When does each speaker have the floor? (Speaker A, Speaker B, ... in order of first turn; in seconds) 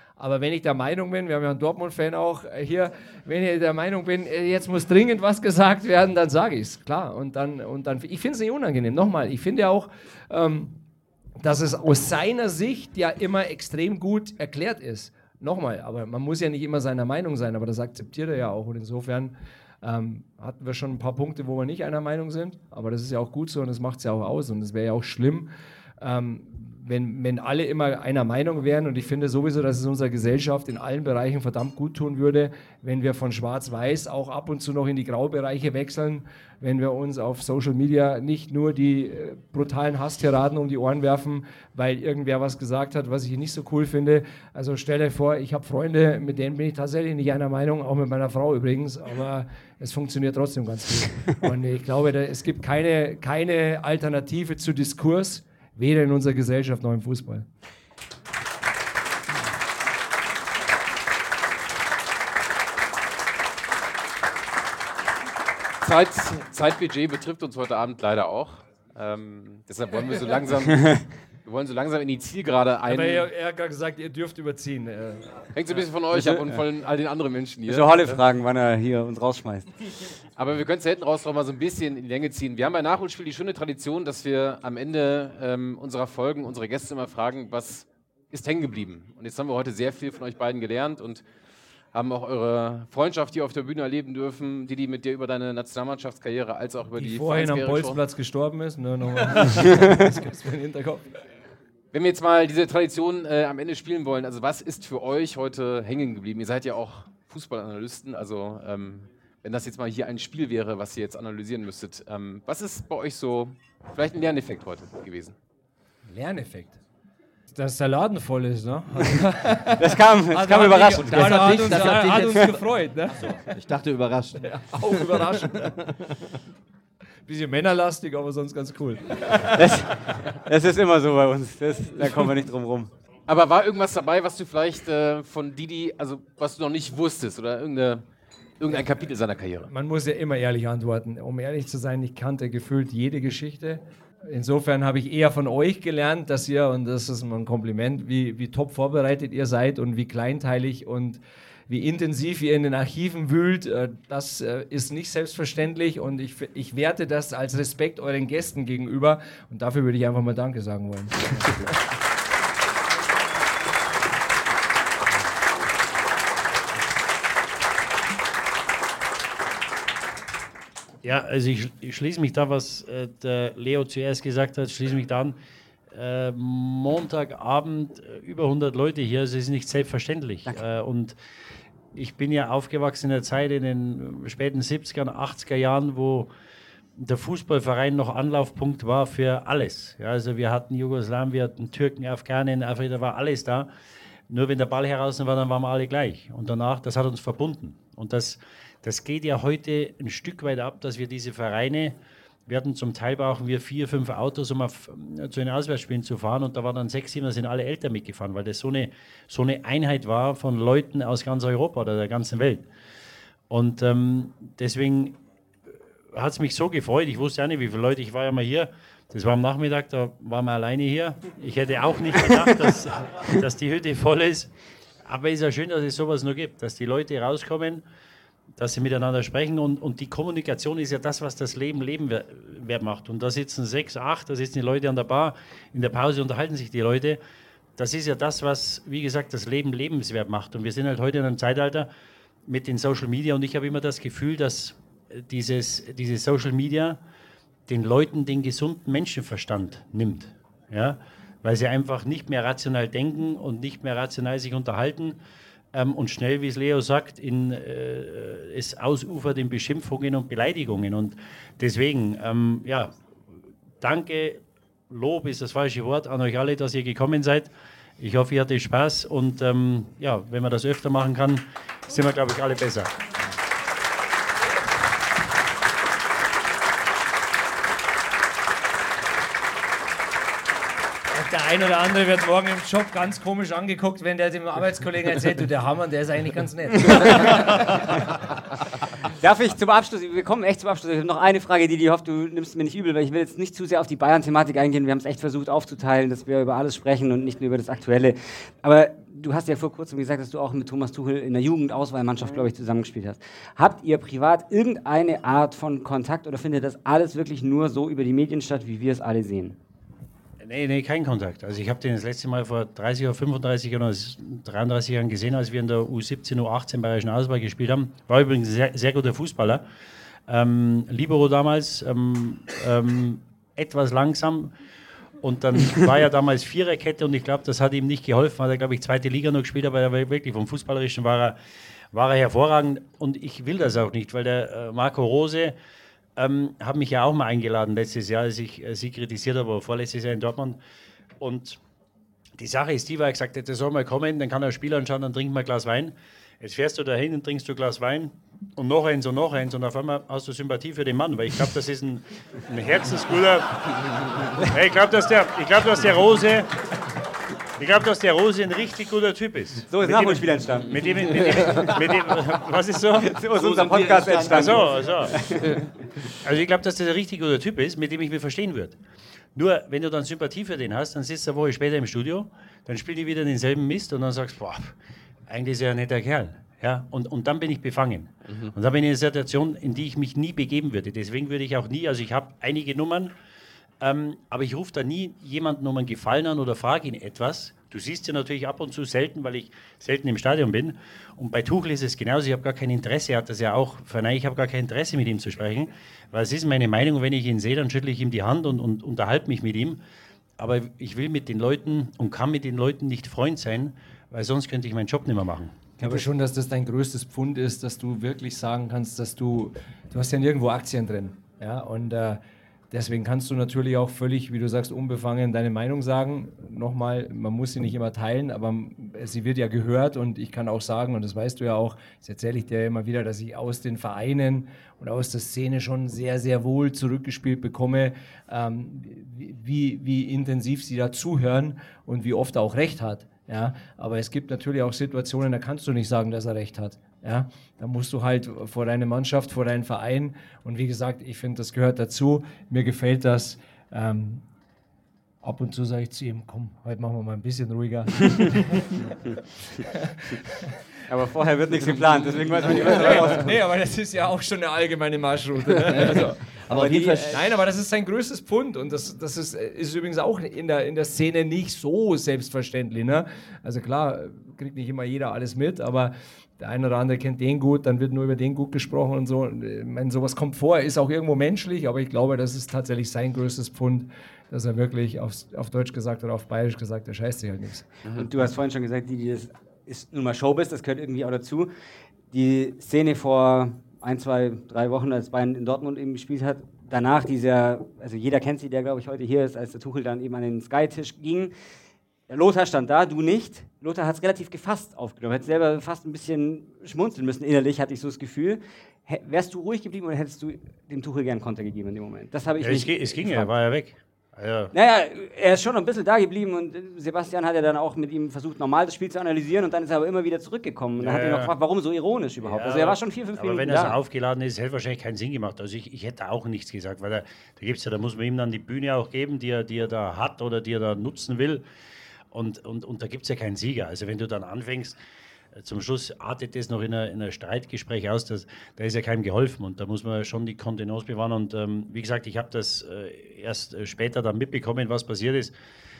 Speaker A: 0.2-10.8, 11.4-57.5, 72.9-75.4, 97.0-101.1, 116.1-116.8, 117.5-123.3, 124.4-125.8, 127.3-129.7, 139.7-161.7, 281.1-288.1, 405.8-444.2, 445.2-448.9, 449.7-450.5, 452.4-456.4, 457.1-477.7
Speaker B: 65.8-73.3, 75.5-78.2, 80.4-91.2, 91.9-98.0, 101.9-115.4, 133.3-138.0, 138.6-139.7, 378.3-378.5
Speaker C: 76.1-76.6, 77.7-79.7, 119.8-122.5, 129.5-132.9, 289.2-309.6, 359.7-361.7, 363.0-365.6, 450.9-453.3, 456.5-457.2, 478.0-481.5, 482.1-491.3, 492.1-503.3, 504.5-513.8
Speaker D: 121.0-126.2, 363.3-365.1, 455.7-457.2
Speaker E: 171.0-175.4, 175.9-181.2, 181.9-186.3, 187.0-193.7, 194.3-202.0, 202.5-212.7, 213.5-215.2, 216.1-224.5, 225.1-227.8, 228.6-237.2, 237.8-241.9, 242.5-247.0, 247.7-255.2, 255.7-262.9, 263.8-272.9, 310.4-319.6, 320.3-324.5, 325.2-331.4, 331.9-335.6, 336.2-340.6, 341.2-341.6, 342.4-356.5, 357.6-363.2, 364.2-365.1, 366.2-368.8, 369.4-374.8, 375.3-383.1, 383.8-399.8, 400.4-405.8, 502.4-504.5, 510.8-511.3, 512.2-521.4, 522.1-524.8, 525.4-535.3